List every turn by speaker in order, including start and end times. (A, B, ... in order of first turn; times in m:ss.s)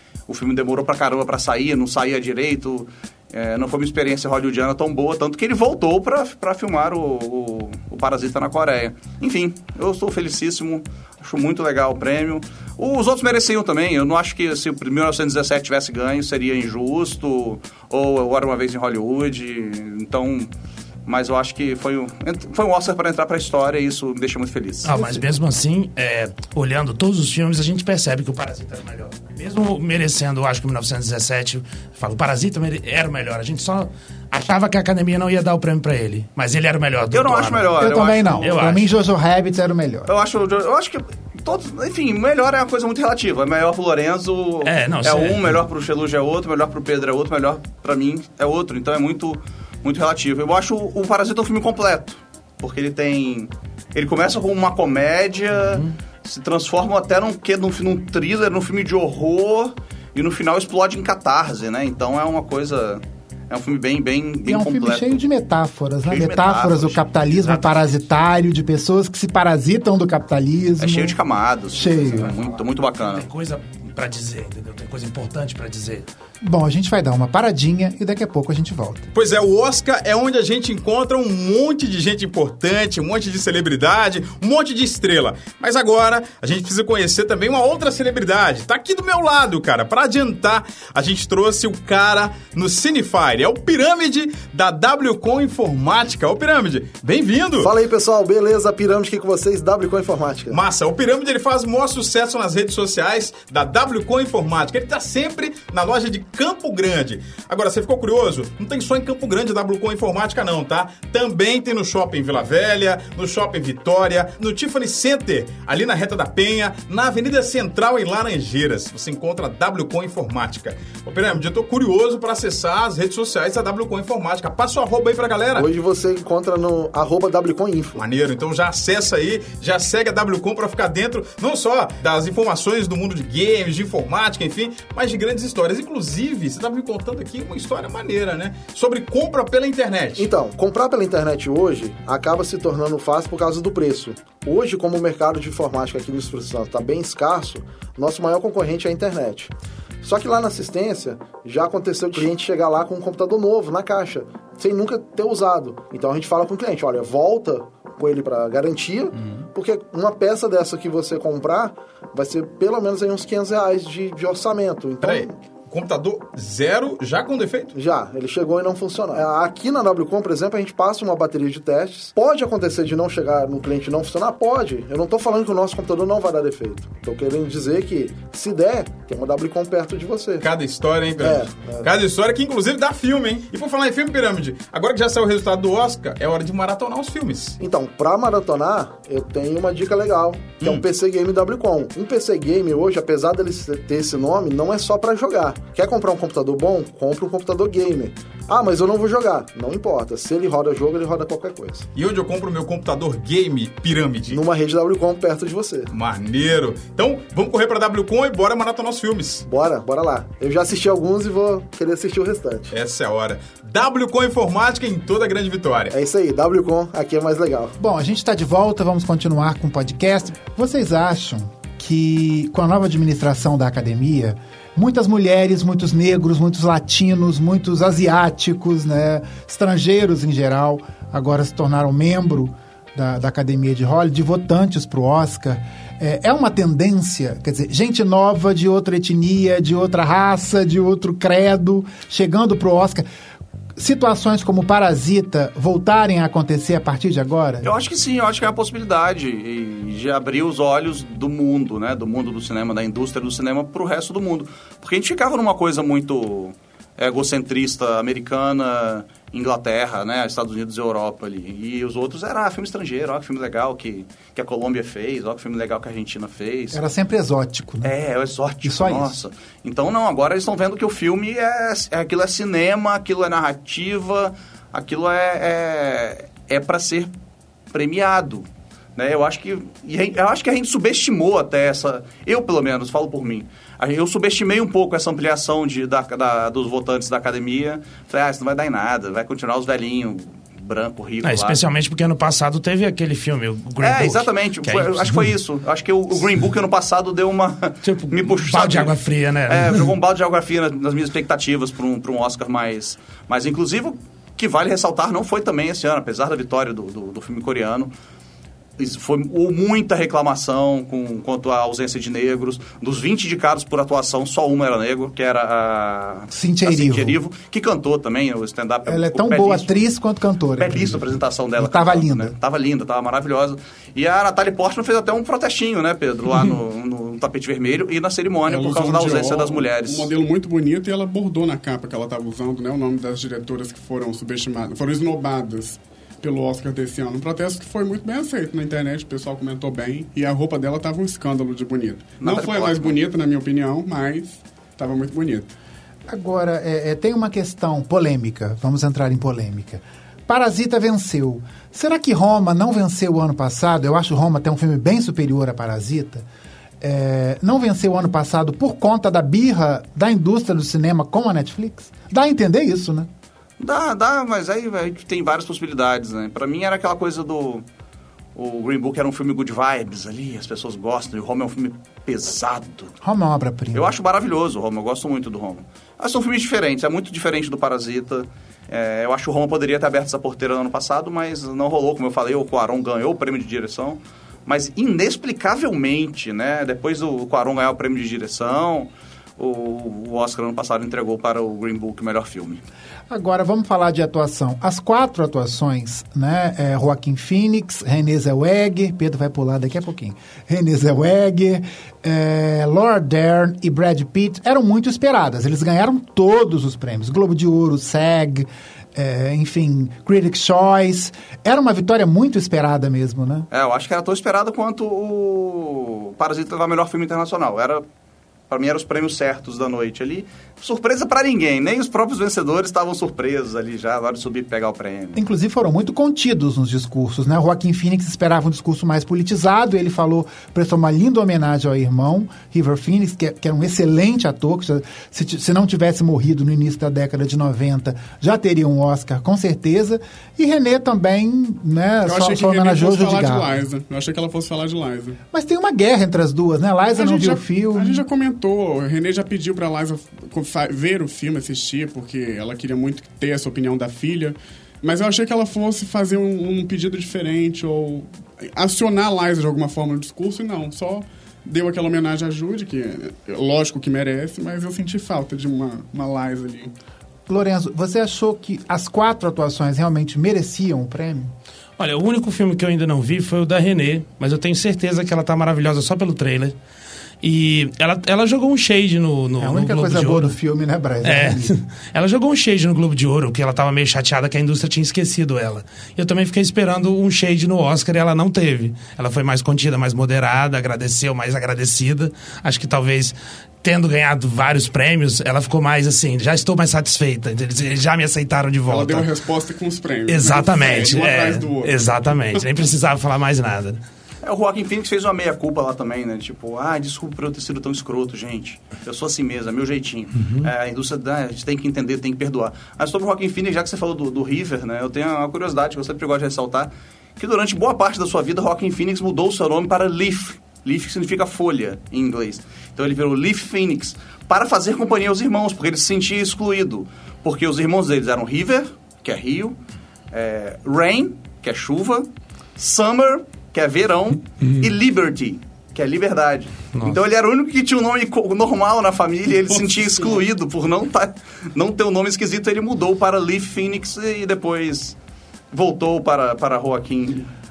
0:00.3-0:20.5 A
0:21.0-0:24.9 A
0:24.8-0:37.8 B
0:37.1-0:38.5 A
0:37.8-0:40.1 C
0:38.4-0:38.9 B
0:40.0-1:05.2 A
0:44.6-0:45.6 B
0:55.6-0:55.9 B
1:04.4-1:11.2 C
1:06.0-1:07.7 A
1:10.8-1:13.2 A
1:11.7-1:12.3 C
1:12.3-1:16.1 B
1:16.4-1:19.0 C
1:19.1-1:37.7 D
1:37.6-1:40.6 E
1:40.5-2:05.7 D
2:05.5-2:08.0 E
2:08.0-2:20.3 D
2:20.2-2:29.5 E
2:30.0-2:45.3 E
2:45.0-2:47.7 D
2:47.7-3:00.5 E
3:00.4-3:07.6 D
3:01.2-3:01.9 E
3:07.6-3:21.9 E
3:21.9-3:24.4 D
3:24.3-3:25.9 E
3:25.9-3:29.4 D
3:29.4-3:32.7 E
3:32.7-3:35.9 D
3:35.9-3:37.7 E
3:37.8-4:03.0 C
4:03.8-4:07.7 C
4:07.6-4:26.8 A
4:26.7-4:27.9 C
4:27.8-4:37.1 A
4:28.6-4:29.2 C
4:37.7-4:51.6 A
4:51.2-4:55.3 B
4:53.8-4:58.9 A
4:57.8-4:59.9 B
4:59.5-5:07.9 A
5:08.8-5:19.8 A
5:16.3-5:17.2 C
5:18.9-5:22.3 C
5:20.6-5:30.1 A
5:28.5-5:45.5 F
5:42.2-5:42.9 A
5:46.1-5:56.2 C
5:56.8-6:03.1 C
6:03.6-6:07.6 A
6:08.3-6:12.9 A
6:13.0-6:13.9 C
6:13.7-6:32.6 A
6:33.1-6:53.5 C
6:53.5-6:57.8 A
6:58.5-7:05.2 A
7:05.1-7:23.5 C
7:22.0-7:25.2 F
7:25.3-7:28.0 C
7:26.9-7:46.7 F
7:47.3-7:51.3 C
7:51.8-7:56.6 B
7:57.2-8:00.3 B
7:59.4-8:01.5 C
8:01.0-8:19.1 B
8:18.7-8:22.4 F
8:20.1-8:23.8 B
8:24.2-8:49.6 A
8:50.1-9:05.0 A
8:59.5-9:00.2 F
9:05.5-9:07.3 A